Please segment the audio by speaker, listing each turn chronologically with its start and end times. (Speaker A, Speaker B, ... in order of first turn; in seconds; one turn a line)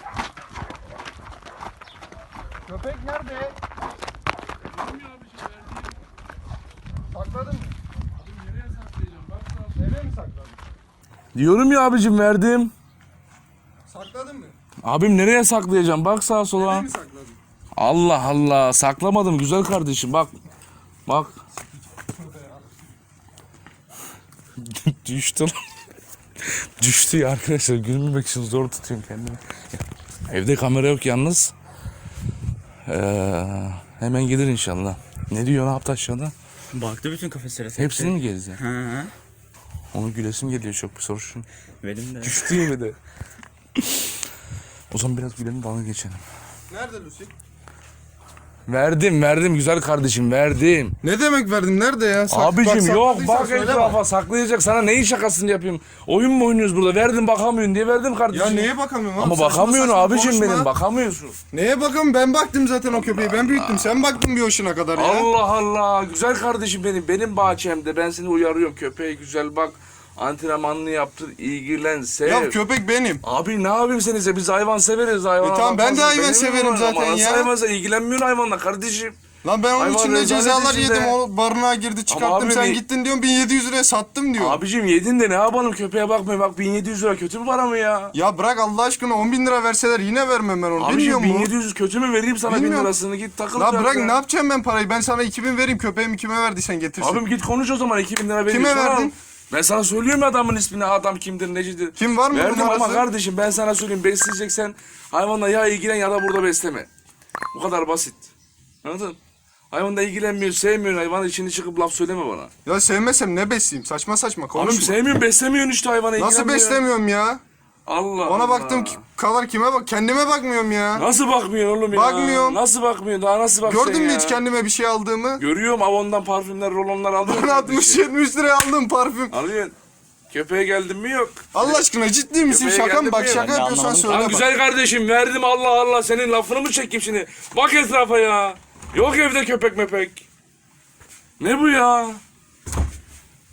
Speaker A: 2.6-3.5
Speaker B: 4.7-5.9
Speaker A: 7.1-7.7
Speaker B: 8.2-9.8
Speaker A: 9.7-10.6
Speaker B: 11.3-12.7
Speaker A: 13.8-14.5
Speaker B: 14.8-16.9
Speaker A: 16.6-17.4
Speaker B: 17.8-20.3
Speaker B: 21.1-21.3
Speaker A: 21.9-22.7
Speaker B: 24.6-25.5
Speaker B: 26.8-31.5
Speaker B: 32.9-36.3
Speaker C: 36.7-39.1
Speaker B: 37.7-38.6
Speaker B: 39.9-41.5
Speaker C: 41.8-42.6
Speaker B: 42.2-43.0
Speaker B: 44.9-46.2
Speaker A: 46.7-47.3
Speaker B: 48.7-51.0
Speaker A: 51.0-54.0
Speaker B: 52.3-61.4
Speaker A: 58.3-60.7
Speaker A: 61.5-65.3
Speaker B: 62.9-64.0
Speaker B: 64.9-72.5
Speaker A: 72.2-73.2
Speaker B: 73.2-79.2
Speaker A: 75.4-77.5
Speaker A: 79.4-84.6
Speaker B: 79.8-81.2
Speaker B: 82.1-82.8
Speaker B: 84.4-88.1
Speaker A: 88.1-91.5
Speaker B: 90.8-94.2
Speaker A: 92.5-92.9
Speaker A: 93.5-97.2
Speaker B: 97.0-106.9
Speaker A: 98.4-99.1
Speaker A: 102.0-103.1
Speaker B: 107.5-108.3
Speaker B: 108.8-109.2
Speaker B: 109.7-112.5
Speaker A: 112.6-115.0
Speaker B: 114.5-116.8
Speaker A: 116.2-117.4
Speaker B: 117.8-119.0
Speaker A: 118.2-121.1
Speaker B: 120.9-124.4
Speaker A: 121.9-122.6
Speaker A: 123.6-125.4
Speaker B: 125.4-128.0
Speaker A: 127.2-129.3
Speaker B: 129.3-129.7
Speaker B: 130.3-131.8
Speaker A: 131.5-134.5
Speaker B: 132.5-133.5
Speaker C: 133.3-134.3
Speaker B: 134.0-140.2
Speaker B: 141.4-142.2